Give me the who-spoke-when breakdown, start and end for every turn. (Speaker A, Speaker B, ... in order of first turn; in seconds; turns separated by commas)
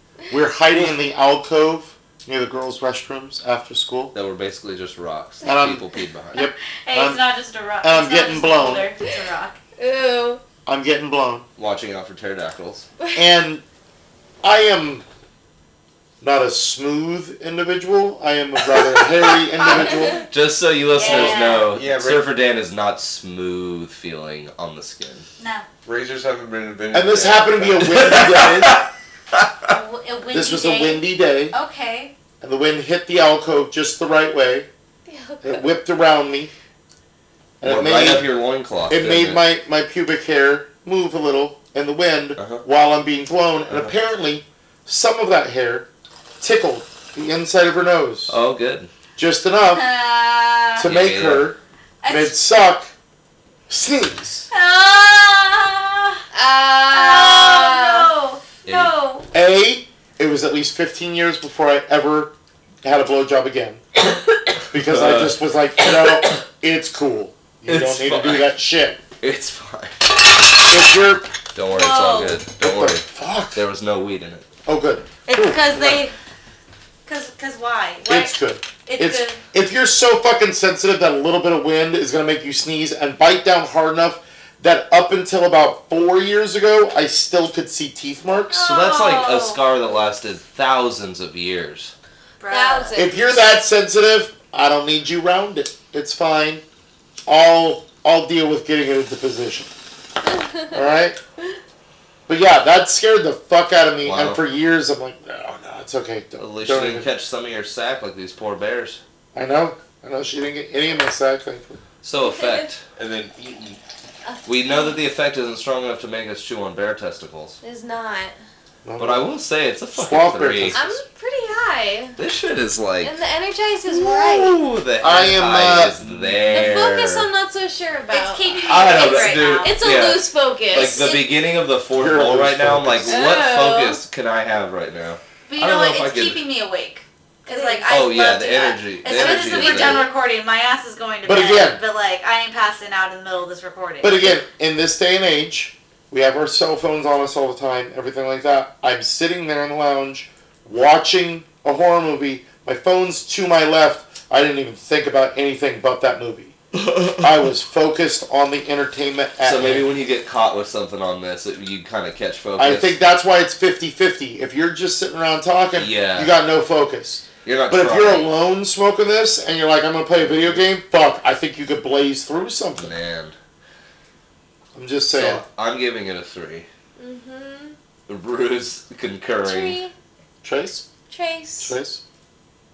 Speaker A: 0.3-4.1, Speaker B: 4.1-6.4, Speaker A: 5.4-5.8, Speaker A: 6.3-7.2, Speaker C: 6.4-9.6, Speaker A: 7.8-8.9, Speaker D: 9.8-10.4, Speaker A: 10.7-11.5, Speaker B: 11.6-12.9, Speaker A: 13.1-13.6, Speaker A: 14.4-15.0, Speaker A: 16.2-20.2, Speaker B: 19.7-25.3, Speaker C: 20.9-21.7, Speaker A: 21.0-21.4, Speaker E: 21.1-22.3, Speaker C: 25.4-25.6, Speaker E: 25.8-28.2, Speaker A: 26.9-28.8, Speaker B: 27.9-29.7, Speaker C: 29.7-32.1, Speaker A: 30.3-31.5, Speaker A: 32.4-34.7, Speaker D: 35.0-35.6, Speaker A: 35.4-36.5, Speaker A: 37.6-38.3, Speaker B: 37.6-39.4, Speaker A: 38.9-45.9, Speaker B: 42.4-42.6, Speaker B: 43.7-43.9, Speaker A: 46.4-48.4, Speaker B: 48.3-48.9, Speaker A: 49.1-49.9, Speaker C: 49.7-50.9, Speaker A: 50.8-52.9, Speaker B: 50.8-51.5, Speaker C: 52.0-52.3, Speaker A: 53.7-54.5, Speaker C: 54.5-56.2, Speaker D: 56.3-58.1, Speaker C: 56.9-59.3, Speaker B: 58.6-58.9, Speaker A: 59.3-63.8, Speaker B: 64.6-66.4, Speaker A: 64.7-69.0, Speaker B: 67.7-68.5, Speaker B: 69.2-70.1, Speaker A: 70.7-71.3, Speaker B: 71.5-74.5, Speaker C: 71.7-72.4, Speaker A: 72.6-73.6, Speaker A: 74.7-76.0, Speaker C: 75.2-76.1, Speaker C: 77.0-79.4, Speaker A: 78.1-88.6, Speaker C: 88.5-89.6, Speaker B: 88.6-91.9, Speaker C: 92.4-93.0, Speaker D: 92.5-93.2, Speaker A: 92.9-96.6, Speaker A: 97.3-99.7, Speaker A: 100.7-101.2, Speaker A: 102.3-107.1, Speaker B: 104.0-104.4, Speaker B: 106.4-109.0, Speaker A: 109.3-111.8, Speaker B: 112.0-112.9, Speaker D: 112.2-112.7, Speaker E: 113.0-113.8, Speaker D: 114.2-115.0, Speaker B: 114.4-117.6, Speaker D: 117.6-118.4, Speaker A: 118.8-119.3, Speaker B: 119.0-120.8, Speaker A: 119.9-121.0, Speaker D: 120.7-122.2, Speaker B: 122.2-123.2, Speaker D: 123.0-124.6, Speaker B: 124.0-127.3, Speaker A: 125.0-126.0, Speaker D: 126.4-131.2, Speaker C: 128.1-129.8, Speaker B: 128.6-136.4, Speaker A: 131.9-133.2, Speaker D: 133.1-134.0, Speaker C: 135.5-144.3, Speaker D: 137.4-138.2, Speaker B: 137.9-140.0, Speaker D: 139.1-140.1, Speaker A: 141.2-141.8, Speaker A: 144.0-156.5, Speaker A: 157.2-159.9, Speaker B: 159.4-162.9, Speaker A: 162.6-172.9, Speaker B: 165.7-166.3, Speaker B: 167.4-168.3, Speaker B: 170.2-170.5, Speaker B: 172.8-173.3, Speaker A: 174.7-175.4, Speaker B: 175.1-176.7, Speaker D: 177.0-177.8, Speaker B: 178.1-179.8, Speaker D: 179.4-179.9, Speaker A: 180.4-180.8, Speaker D: 181.1-181.8, Speaker A: 181.6-182.0